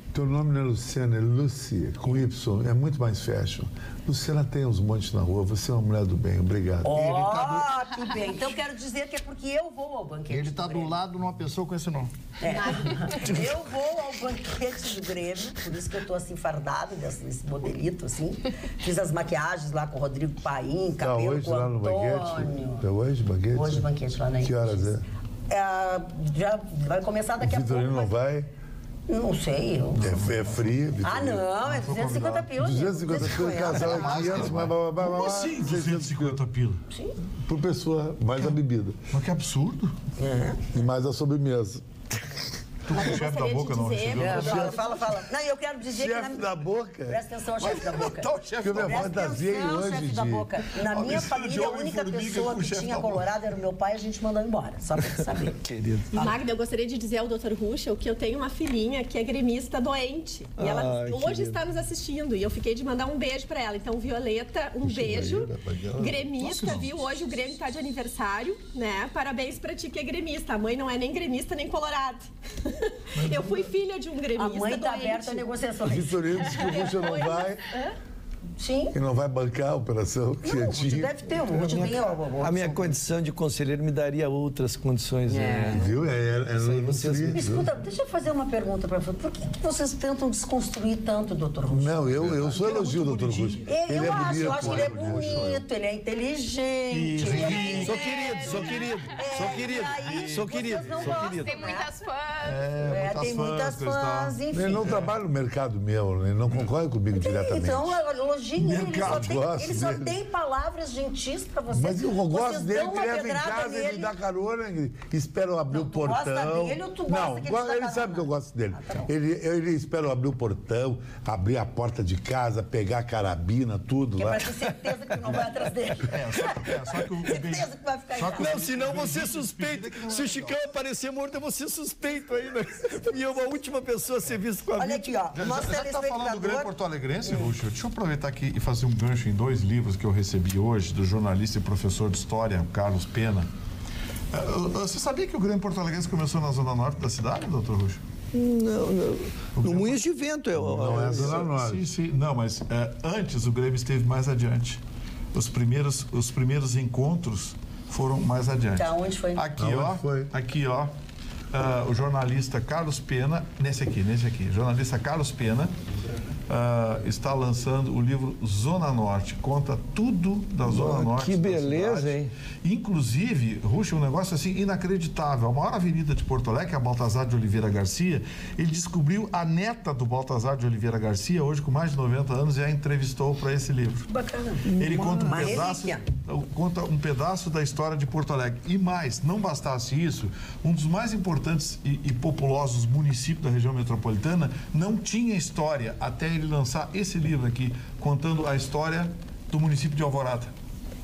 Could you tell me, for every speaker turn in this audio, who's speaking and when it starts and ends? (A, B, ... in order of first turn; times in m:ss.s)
0:00.1-0:07.6 A
0:06.8-0:11.0 B
0:10.3-0:12.1 C
0:12.4-0:22.9 B
0:21.0-0:23.9 A
0:23.5-0:24.9 B
0:24.4-0:25.0 A
0:25.5-0:28.1 B
0:27.4-0:28.5 A
0:29.1-0:30.2 B
0:30.0-0:31.4 A
0:30.0-0:30.7 D
0:31.0-0:34.5 B
0:31.6-0:32.5 D
0:32.5-0:36.4 A
0:33.7-0:36.8 D
0:37.4-0:39.0 A
0:39.1-0:39.9 D
0:40.2-0:40.6 B
0:40.7-0:41.8 A
0:42.8-0:44.8 D
0:42.9-0:44.8 E
0:44.2-0:55.6 B
0:44.3-0:44.7 A
0:45.9-0:47.2 A
0:47.6-0:49.2 D
0:48.6-0:50.5 A
0:50.8-0:53.2 D
0:55.6-0:56.3 F
0:56.1-1:15.5 E
1:00.6-1:01.6 F
1:04.9-1:05.8 A
1:04.9-1:06.9 D
1:13.1-1:13.7 D
1:14.4-1:17.2 B
1:15.8-1:17.6 A
1:18.6-1:18.9 B
1:18.9-1:22.1 A
1:20.4-1:22.9 B
1:22.4-1:25.8 F
1:25.3-1:25.9 B
1:25.7-1:27.7 A
1:26.4-1:27.4 F
1:27.3-1:32.1 B
1:31.7-1:35.6 A
1:32.2-1:35.5 D
1:33.6-1:41.9 B
1:36.9-1:38.8 D
1:37.2-1:37.5 C
1:37.3-1:39.3 G
1:37.4-1:41.8 F
1:39.4-1:41.2 D
1:41.1-1:42.7 G
1:42.4-1:45.2 D
1:42.9-1:44.9 B
1:44.5-1:48.0 A
1:47.1-1:54.1 B
1:48.6-1:49.3 D
1:48.7-1:50.1 A
1:51.7-2:04.5 A
1:55.7-1:59.1 B
2:04.2-2:06.7 B
2:06.1-2:10.6 D
2:07.2-2:08.6 B
2:08.4-2:15.2 F
2:14.8-2:16.7 B
2:15.3-2:23.5 D
2:17.2-2:17.5 B
2:24.3-2:28.0 D
2:28.3-2:31.4 F
2:29.6-2:30.0 D
2:30.6-2:31.9 A
2:30.9-2:34.8 D
2:35.3-2:40.9 D
2:38.8-2:39.5 B
2:39.6-2:40.3 A
2:41.5-2:45.7 D
2:46.5-3:04.1 D
2:50.6-2:52.3 F
3:04.1-3:06.0 B
3:04.6-3:20.5 D
3:04.8-3:05.3 F